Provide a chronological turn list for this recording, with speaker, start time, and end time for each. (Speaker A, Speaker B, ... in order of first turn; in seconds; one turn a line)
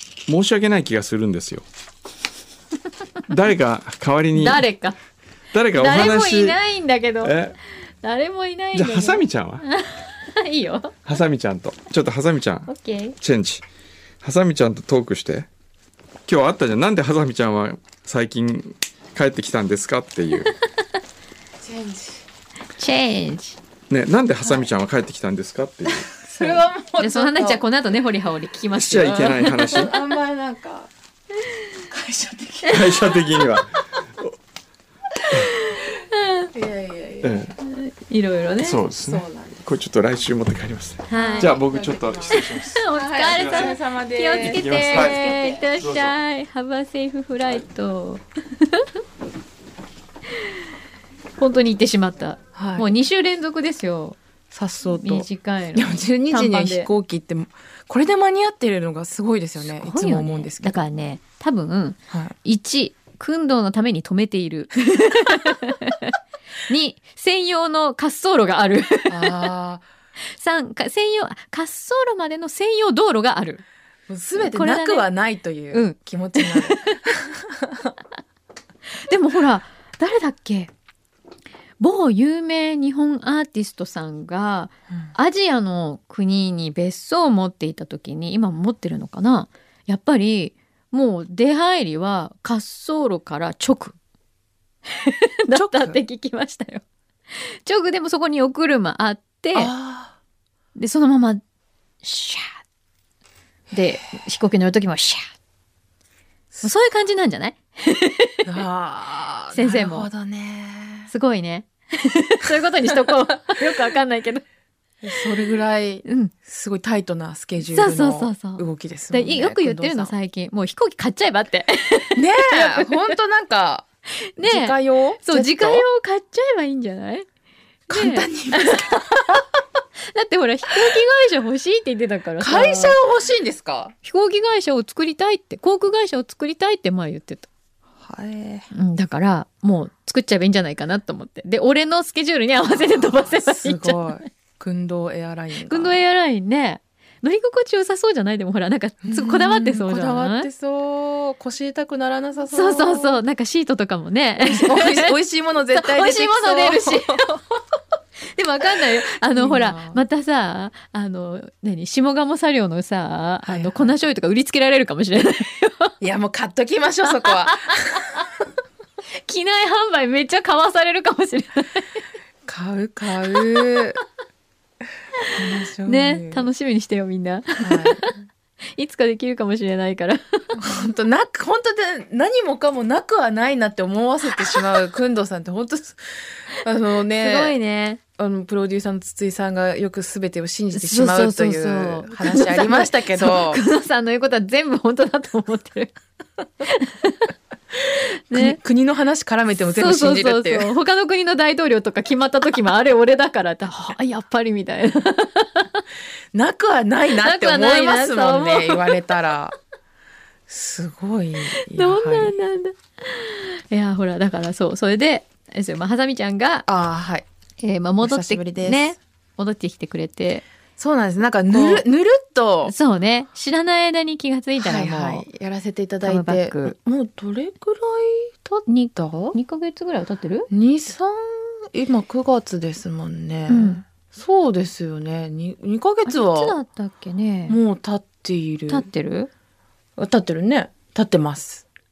Speaker A: 0.3-1.6
Speaker A: 3.3-4.6
Speaker B: 4.3-5.0
Speaker A: 5.5-6.6
Speaker B: 5.8-11.1
Speaker A: 7.2-7.6
Speaker A: 8.7-9.6
Speaker A: 11.1-13.6
Speaker B: 12.7-13.2
Speaker A: 14.2-15.5
Speaker A: 16.3-20.5
Speaker C: 21.6-22.2
Speaker B: 22.8-23.6
Speaker A: 23.9-26.1
Speaker C: 26.2-27.6
Speaker B: 26.3-29.9
Speaker A: 28.8-29.9
Speaker C: 29.0-30.9
Speaker C: 31.9-33.6
Speaker A: 32.7-33.7
Speaker B: 35.5-36.5
Speaker C: 36.5-37.5
Speaker A: 37.2-37.5
Speaker B: 37.6-38.8
Speaker A: 38.6-43.8
Speaker C: 39.0-39.6
Speaker B: 41.1-41.5
Speaker C: 41.1-45.7
Speaker B: 42.3-48.9
Speaker A: 44.4-46.1
Speaker B: 51.4-54.2
Speaker C: 52.5-52.9
Speaker C: 54.5-60.9
Speaker B: 54.9-56.9
Speaker B: 59.6-66.1
Speaker B: 66.7-69.5
Speaker C: 69.1-69.8
Speaker B: 70.3-73.6
Speaker C: 74.1-77.3
Speaker B: 74.4-75.1
Speaker B: 75.7-77.0
Speaker B: 79.1-80.7
Speaker B: 81.8-94.0
Speaker B: 94.9-99.7
Speaker C: 95.5-96.0
Speaker C: 99.5-100.2
Speaker B: 100.8-101.4
Speaker B: 102.0-102.6
Speaker B: 103.7-105.3
Speaker B: 106.6-108.5
Speaker C: 108.5-111.1
Speaker B: 109.5-110.1
Speaker B: 111.1-114.4
Speaker C: 115.0-120.1
Speaker B: 116.0-116.3
Speaker B: 117.6-123.2
Speaker C: 122.2-123.8
Speaker B: 124.4-127.3
Speaker C: 124.4-125.8
Speaker B: 127.9-129.4
Speaker C: 127.9-129.4
Speaker B: 130.1-133.0
Speaker C: 132.4-133.9
Speaker B: 134.0-137.5
Speaker C: 138.0-138.7
Speaker B: 138.7-144.1
Speaker C: 142.6-146.0
Speaker B: 145.6-150.5
Speaker C: 149.0-153.2
Speaker B: 152.5-155.1
Speaker C: 154.4-157.4
Speaker B: 155.7-157.2
Speaker B: 158.3-165.9
Speaker C: 159.3-160.0
Speaker C: 163.4-163.9
Speaker C: 166.0-168.1
Speaker B: 167.1-168.2
Speaker B: 169.2-172.0
Speaker C: 172.5-174.0
Speaker B: 173.3-173.8
Speaker C: 175.3-176.5
Speaker B: 175.8-178.1
Speaker C: 177.6-178.1
Speaker B: 178.8-180.6
Speaker C: 180.6-187.6
Speaker B: 184.4-184.8
Speaker B: 187.2-188.0
Speaker C: 188.2-193.6
Speaker B: 190.7-196.0
Speaker B: 196.6-197.3
Speaker B: 198.3-198.6
Speaker C: 198.3-200.7
Speaker B: 199.8-205.8
Speaker C: 206.3-209.6
Speaker B: 207.2-209.2
Speaker C: 210.5-212.4
Speaker B: 211.6-216.7
Speaker C: 216.7-217.3
Speaker B: 217.6-220.4
Speaker C: 218.0-218.9
Speaker C: 220.8-222.7
Speaker B: 221.5-221.8
Speaker B: 222.7-225.3
Speaker C: 224.6-229.4
Speaker B: 226.0-226.8
Speaker B: 229.3-230.5
Speaker C: 230.5-236.6
Speaker B: 233.5-233.8
Speaker B: 236.1-237.6
Speaker C: 237.5-238.9
Speaker B: 238.7-239.3
Speaker C: 240.0-241.6